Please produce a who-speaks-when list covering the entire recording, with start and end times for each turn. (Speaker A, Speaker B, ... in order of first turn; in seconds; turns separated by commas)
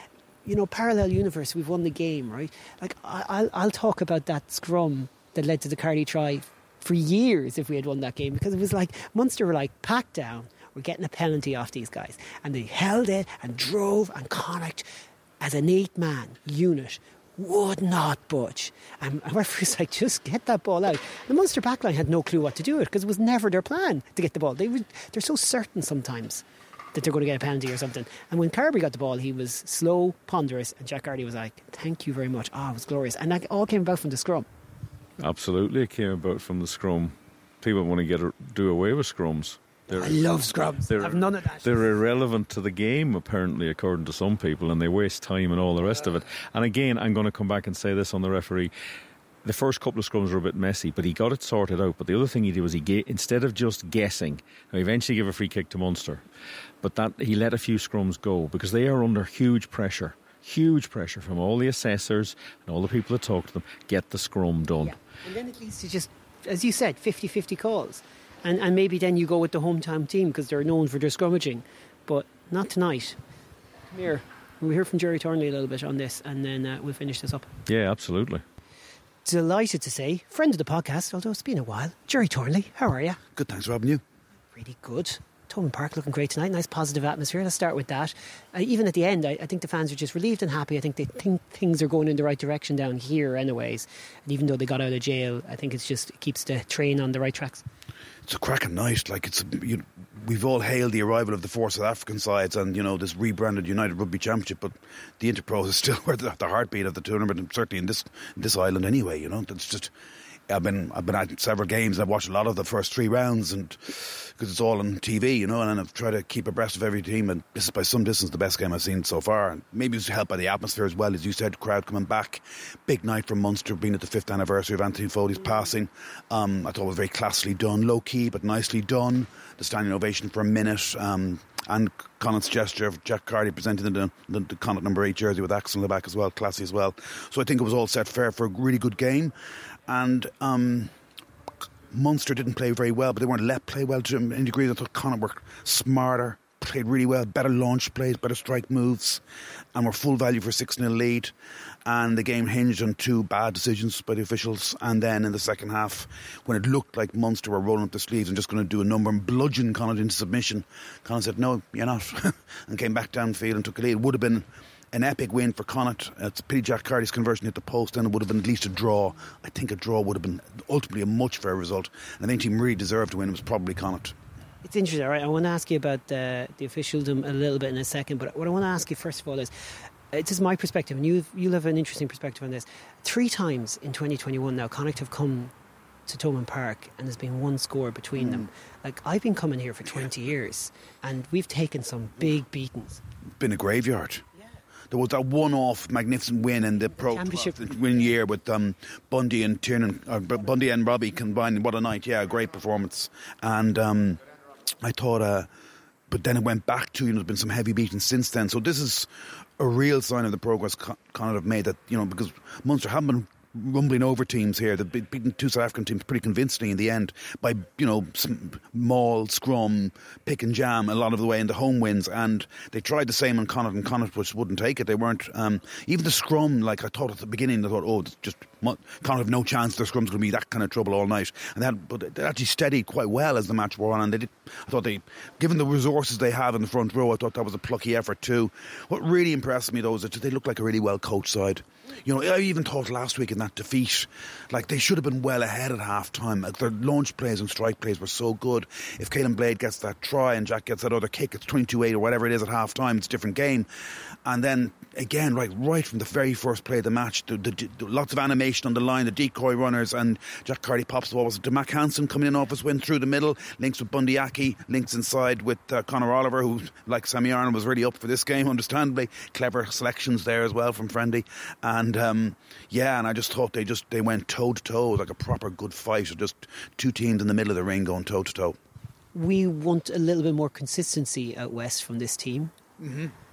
Speaker A: 0.4-14.8, Speaker A: 15.4-34.5, Speaker B: 35.2-40.3, Speaker A: 39.9-41.9, Speaker B: 40.9-48.7, Speaker B: 49.4-56.2, Speaker B: 56.8-64.9, Speaker A: 64.8-73.2, Speaker A: 73.9-77.5, Speaker B: 77.7-78.4, Speaker A: 79.2-83.2, Speaker C: 83.3-84.0, Speaker A: 84.5-97.7, Speaker C: 98.2-109.9, Speaker C: 110.5-140.9, Speaker C: 141.9-149.2, Speaker C: 149.7-151.3, Speaker C: 151.8-174.1, Speaker A: 174.6-179.5, Speaker A: 180.1-185.5, Speaker A: 186.1-193.0, Speaker C: 193.4-194.2, Speaker C: 194.9-204.2, Speaker A: 197.0-197.7, Speaker C: 204.8-205.5, Speaker C: 206.1-253.7, Speaker C: 254.2-278.6, Speaker A: 279.1-282.5, Speaker C: 282.8-283.1